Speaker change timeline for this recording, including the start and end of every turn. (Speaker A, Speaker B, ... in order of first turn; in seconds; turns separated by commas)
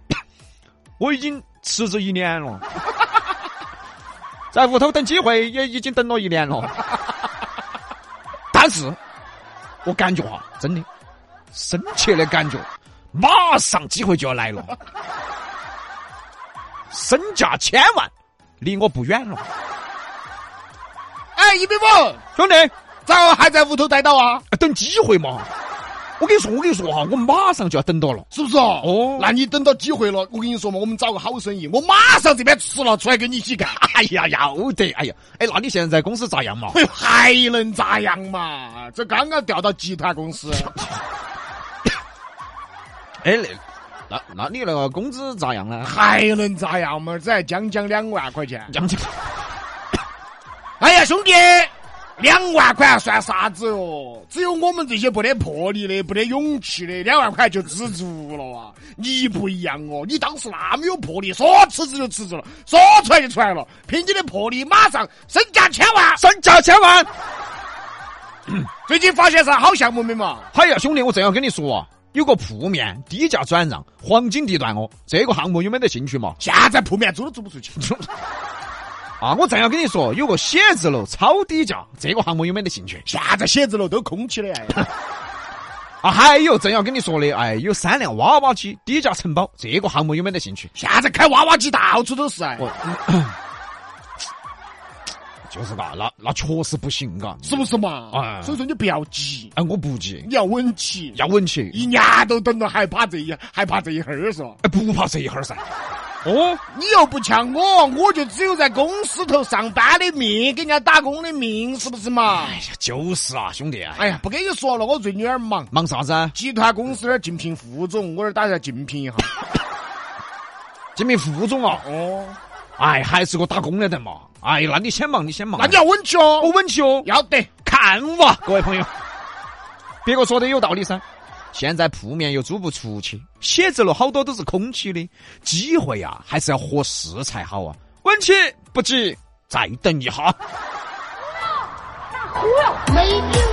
Speaker A: 1.0-2.6, Speaker A: 4.5-6.8, Speaker A: 8.5-9.0, Speaker A: 9.8-10.9, Speaker A: 11.5-14.7, Speaker A: 16.9-19.4, Speaker B: 21.3-22.2, Speaker A: 22.4-22.7, Speaker B: 23.1-24.4, Speaker A: 24.5-25.5, Speaker A: 26.2-28.2, Speaker B: 28.3-33.8, Speaker A: 28.8-29.3, Speaker A: 33.6-36.8, Speaker B: 36.7-40.7, Speaker A: 43.2-45.9, Speaker B: 45.8-48.7, Speaker A: 48.7-49.2, Speaker B: 50.8-66.2, Speaker A: 66.2-67.1, Speaker B: 68.8-70.5, Speaker A: 70.5-76.4, Speaker B: 76.4-77.9, Speaker A: 79.2-83.0, Speaker B: 83.0-84.9, Speaker A: 86.0-90.7, Speaker B: 90.7-92.7, Speaker A: 92.6-93.3, Speaker A: 95.5-98.6, Speaker B: 97.4-99.5, Speaker A: 99.5-100.3, Speaker B: 100.2-101.2, Speaker A: 101.1-101.8, Speaker B: 101.7-104.6, Speaker A: 104.6-105.6, Speaker A: 106.2-106.6, Speaker B: 106.7-112.6, Speaker A: 112.3-114.1, Speaker B: 114.0-115.7, Speaker A: 115.7-116.3, Speaker B: 116.3-119.3, Speaker A: 121.0-121.8, Speaker B: 121.8-122.4, Speaker A: 122.8-125.8, Speaker B: 125.5-126.5, Speaker A: 126.4-127.1, Speaker B: 127.0-127.5, Speaker A: 127.6-128.9, Speaker A: 130.0-131.0, Speaker A: 131.5-140.4